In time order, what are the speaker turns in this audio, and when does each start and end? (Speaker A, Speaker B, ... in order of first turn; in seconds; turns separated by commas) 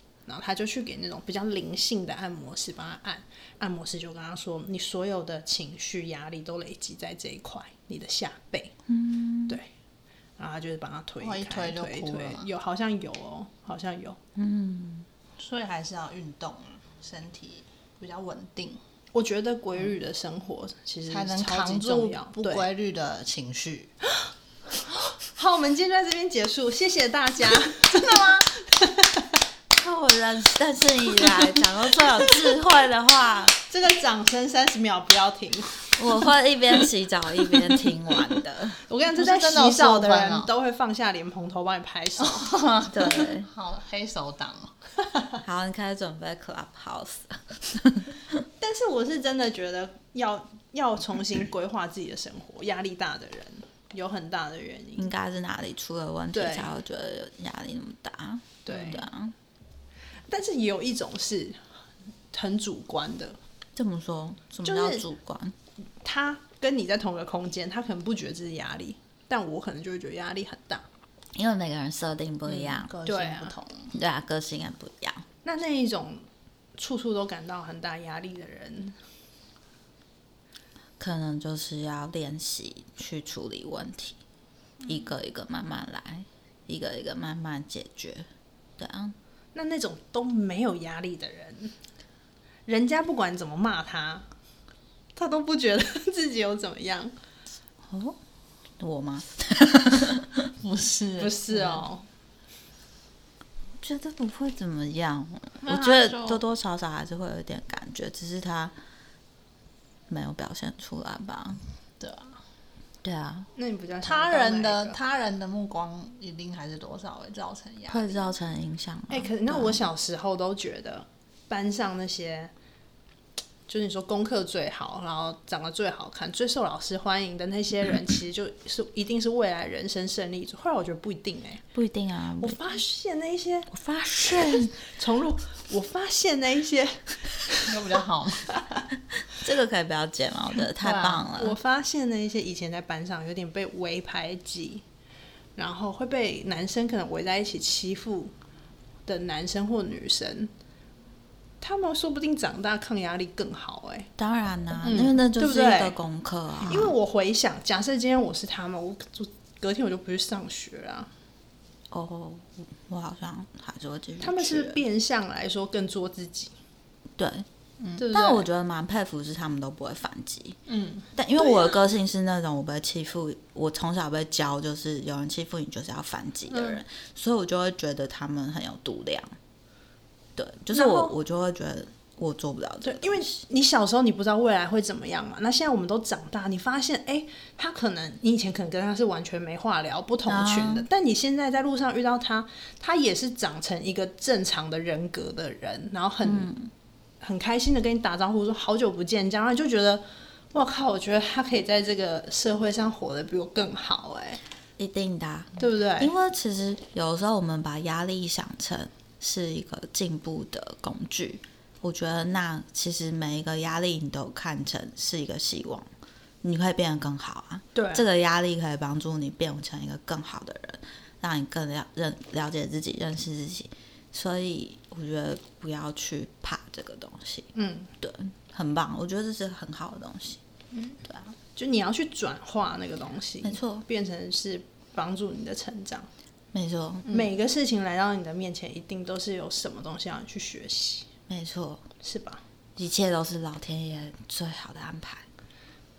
Speaker A: 0.3-8.8, Speaker B: 8.9-9.6, Speaker A: 10.4-14.2, Speaker C: 11.2-12.5, Speaker B: 14.4-15.1, Speaker C: 15.4-18.8, Speaker A: 19.1-22.7, Speaker C: 21.1-23.9, Speaker A: 25.2-29.3, Speaker C: 27.9-28.5, Speaker B: 29.7-33.6, Speaker A: 33.6-36.0, Speaker B: 36.0-38.8, Speaker A: 38.9-42.6, Speaker C: 39.2-40.5, Speaker C: 42.2-44.7, Speaker B: 42.9-43.5, Speaker B: 45.4-48.4, Speaker A: 48.6-55.1, Speaker B: 55.0-59.4, Speaker A: 56.3-56.7, Speaker A: 58.6-59.0, Speaker A: 60.3-61.6, Speaker A: 62.3-63.4, Speaker B: 63.8-65.5, Speaker A: 64.7-65.0, Speaker A: 66.0-70.8, Speaker B: 71.3-72.9, Speaker C: 72.5-73.9, Speaker A: 73.1-73.5, Speaker B: 73.9-75.3, Speaker A: 75.5-76.2, Speaker A: 76.8-79.0, Speaker B: 81.0-84.2, Speaker B: 84.8-88.3, Speaker B: 88.8-89.2, Speaker A: 89.5-91.7, Speaker A: 92.7-94.3, Speaker A: 95.2-97.1, Speaker B: 97.9-98.2, Speaker B: 98.8-100.5, Speaker C: 100.6-101.8, Speaker A: 101.2-102.0, Speaker B: 103.8-108.7, Speaker C: 105.6-106.4, Speaker B: 110.1-111.6, Speaker C: 112.0-112.4, Speaker B: 113.0-113.5, Speaker A: 113.5-115.0, Speaker C: 114.0-118.3, Speaker B: 117.9-119.8, Speaker A: 119.1-122.5, Speaker A: 123.7-131.6, Speaker B: 131.7-132.8, Speaker A: 132.4-133.7, Speaker B: 133.7-134.8, Speaker A: 134.3-137.7, Speaker C: 137.7-138.5, Speaker B: 139.3-141.6, Speaker C: 140.8-141.2, Speaker A: 141.4-144.8, Speaker A: 145.6-148.3, Speaker A: 149.1-150.5, Speaker A: 151.6-154.1, Speaker B: 154.2-156.9, Speaker A: 154.8-156.0, Speaker A: 156.7-161.1, Speaker B: 161.9-164.8, Speaker A: 164.2-166.5, Speaker B: 167.2-167.5, Speaker C: 167.8-168.1, Speaker B: 168.0-170.6, Speaker A: 168.0-168.4, Speaker C: 170.7-171.1, Speaker B: 171.2-179.3, Speaker A: 176.5-176.8, Speaker B: 180.4-183.3, Speaker A: 180.7-181.1, Speaker A: 182.8-196.5, Speaker B: 190.3-190.9, Speaker B: 196.2-196.7, Speaker A: 197.2-204.4, Speaker B: 204.8-215.9, Speaker A: 205.6-206.1, Speaker B: 216.4-227.5, Speaker A: 217.8-218.1, Speaker A: 227.6-227.9, Speaker B: 228.0-230.4, Speaker A: 230.9-236.1, Speaker B: 233.4-233.8, Speaker B: 236.5-237.3, Speaker A: 237.1-241.1, Speaker B: 241.3-241.8, Speaker A: 242.0-242.4, Speaker B: 242.8-245.3